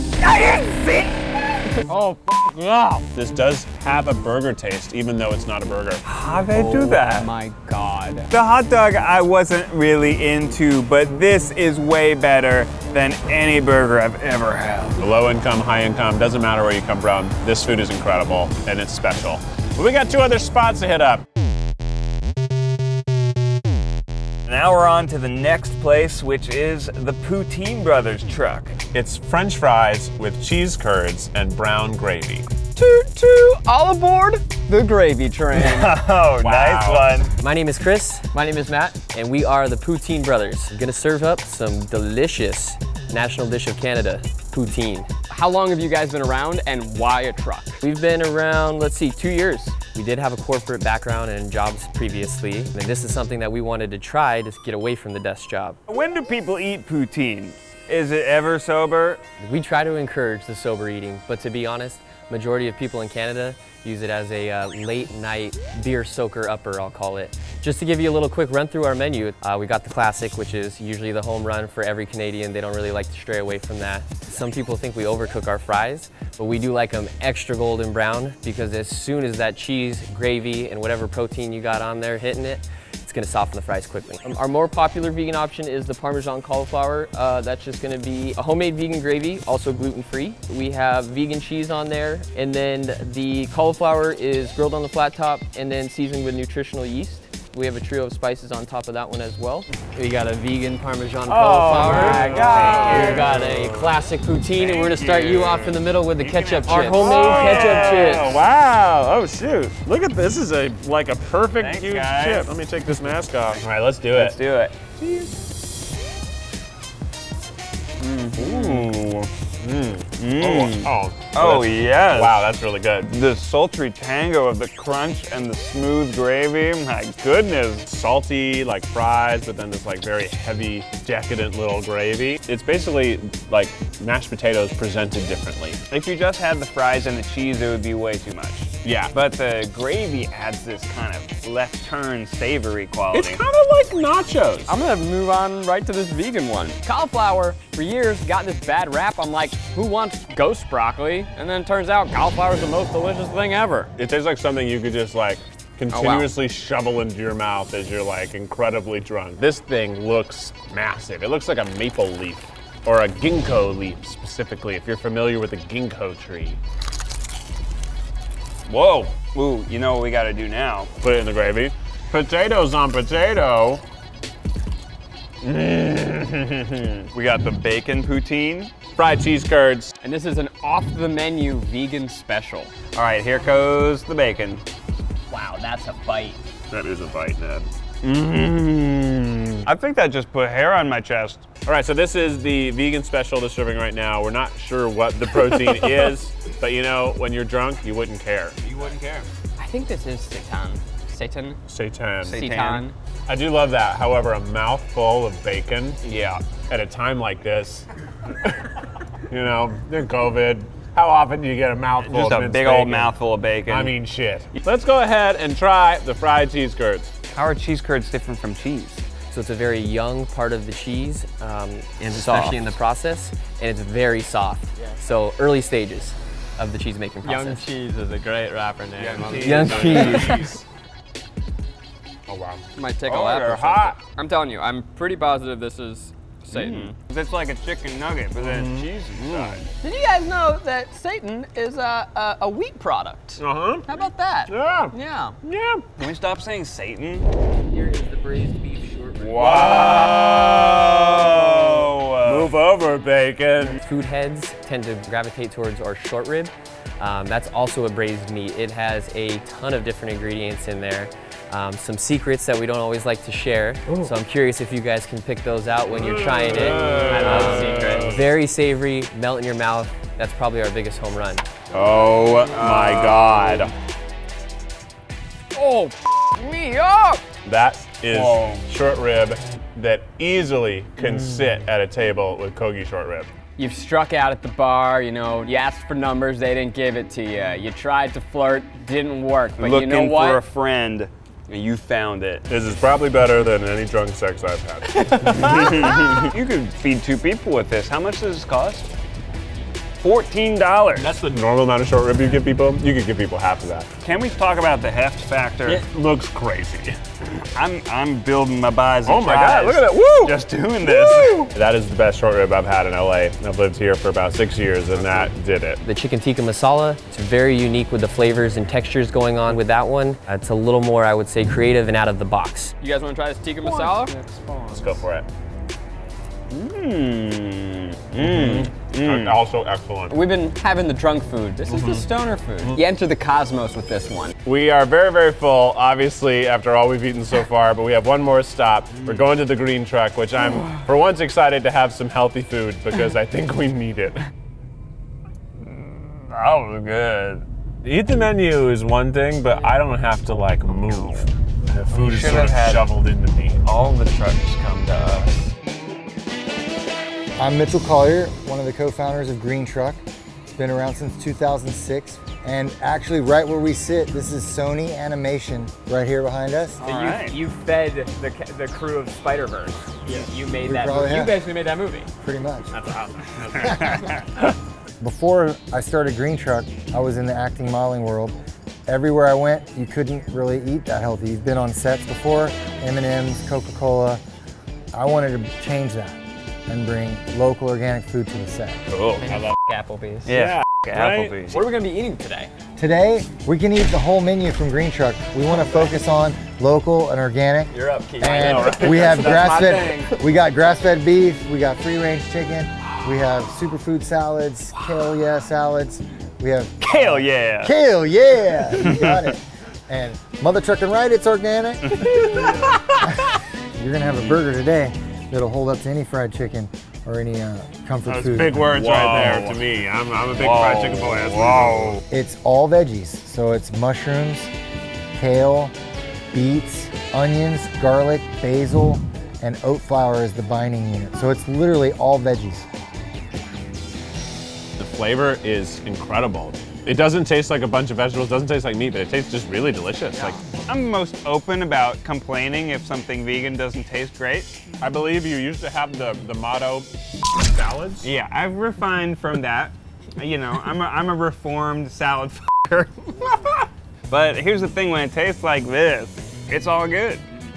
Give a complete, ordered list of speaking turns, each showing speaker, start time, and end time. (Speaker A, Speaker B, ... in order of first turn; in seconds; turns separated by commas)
Speaker A: 0.2-1.6, Speaker B: 1.6-3.0, Speaker C: 3.0-6.0, Speaker A: 6.0-7.3, Speaker B: 6.5-8.3, Speaker A: 8.3-15.0, Speaker C: 15.0-21.2, Speaker A: 24.5-28.8, Speaker C: 28.9-32.5, Speaker B: 32.8-36.0, Speaker A: 35.5-37.4, Speaker C: 36.4-37.2, Speaker D: 37.4-45.1, Speaker B: 38.4-38.9, Speaker B: 45.3-47.8, Speaker D: 47.8-55.8, Speaker A: 55.9-59.2, Speaker D: 59.4-108.4, Speaker C: 101.3-103.9, Speaker A: 101.8-103.7, Speaker B: 102.0-102.9, Speaker A: 104.6-105.8, Speaker C: 104.9-105.5, Speaker C: 106.2-114.4, Speaker A: 106.3-108.4, Speaker A: 111.6-112.5, Speaker A: 114.1-114.7, Speaker C: 115.0-115.4, Speaker A: 118.0-119.3, Speaker C: 118.3-119.0, Speaker C: 119.6-123.1, Speaker A: 120.2-122.4, Speaker A: 123.0-127.9, Speaker C: 127.8-135.8, Speaker A: 135.9-143.4, Speaker C: 138.8-139.1, Speaker C: 143.1-144.8, Speaker B: 144.7-153.9, Speaker C: 154.0-166.6, Speaker B: 155.9-156.3, Speaker A: 168.7-170.9, Speaker C: 171.0-173.8, Speaker A: 175.4-178.7, Speaker C: 178.9-179.9, Speaker B: 180.0-182.7, Speaker A: 182.9-184.6, Speaker B: 185.3-186.4, Speaker C: 186.7-187.7, Speaker A: 188.0-191.4, Speaker C: 191.7-198.6, Speaker B: 195.5-195.8, Speaker A: 198.6-199.3, Speaker B: 199.6-201.6, Speaker C: 201.7-202.4, Speaker A: 202.2-202.9, Speaker B: 202.3-202.9, Speaker C: 203.3-206.0, Speaker A: 206.0-206.4, Speaker C: 206.7-207.9, Speaker C: 209.3-217.1, Speaker A: 212.0-213.9, Speaker A: 217.3-219.1, Speaker D: 219.2-227.7, Speaker A: 222.2-222.5, Speaker B: 227.2-230.4, Speaker C: 229.0-230.6, Speaker A: 229.2-230.3, Speaker D: 229.4-230.5, Speaker C: 232.3-232.6, Speaker B: 232.8-236.9, Speaker A: 233.1-234.0, Speaker C: 236.5-236.9, Speaker A: 236.7-239.7, Speaker C: 238.4-239.6, Speaker B: 239.8-245.4, Speaker C: 243.4-243.8, Speaker C: 244.5-245.9, Speaker A: 246.0-252.5, Speaker C: 249.2-253.8, Speaker D: 253.8-271.4, Speaker C: 265.9-268.3, Speaker B: 266.7-268.2, Speaker C: 271.7-273.7, Speaker B: 275.5-277.2, Speaker C: 277.4-283.3, Speaker A: 278.1-278.6, Speaker B: 283.6-290.4, Speaker A: 289.6-292.4, Speaker C: 292.5-295.6, Speaker B: 295.0-296.2, Speaker A: 295.3-298.9, Speaker A: 300.0-301.2, Speaker C: 300.9-303.9, Speaker A: 304.0-305.8, Speaker C: 305.6-307.0, Speaker A: 307.5-311.5, Speaker C: 309.1-315.8, Speaker D: 315.8-322.7, Speaker B: 322.8-324.8, Speaker C: 323.8-325.3, Speaker A: 326.5-329.4, Speaker C: 328.2-330.1, Speaker B: 330.1-334.3, Speaker C: 331.7-332.1, Speaker C: 334.4-344.2, Speaker A: 345.6-347.4, Speaker C: 347.8-353.6, Speaker A: 351.9-352.9, Speaker A: 353.6-355.3, Speaker E: 357.4-360.0, Speaker E: 360.6-366.8, Speaker A: 366.8-367.4, Speaker B: 366.8-372.1, Speaker E: 370.6-371.4, Speaker E: 372.2-372.7, Speaker C: 372.7-373.8, Speaker E: 373.6-374.1, Speaker A: 373.7-373.9, Speaker E: 375.0-378.3, Speaker E: 378.9-384.2, Speaker E: 384.9-388.8, Speaker A: 388.9-389.2, Speaker B: 389.2-390.3, Speaker C: 389.2-389.6, Speaker A: 390.2-391.6, Speaker C: 390.3-391.5, Speaker B: 391.5-392.5, Speaker E: 392.8-418.7, Speaker B: 397.7-400.2, Speaker C: 398.3-399.8, Speaker A: 406.8-407.7, Speaker A: 408.8-409.3, Speaker A: 411.9-412.7, Speaker C: 414.1-414.4, Speaker C: 418.1-422.0, Speaker A: 418.7-419.6, Speaker A: 420.4-422.0, Speaker E: 422.1-424.5, Speaker E: 425.1-425.7, Speaker E: 426.3-432.6, Speaker C: 434.8-440.4, Speaker A: 440.2-444.6, Speaker C: 444.8-446.9, Speaker C: 447.4-448.1, Speaker A: 448.0-457.2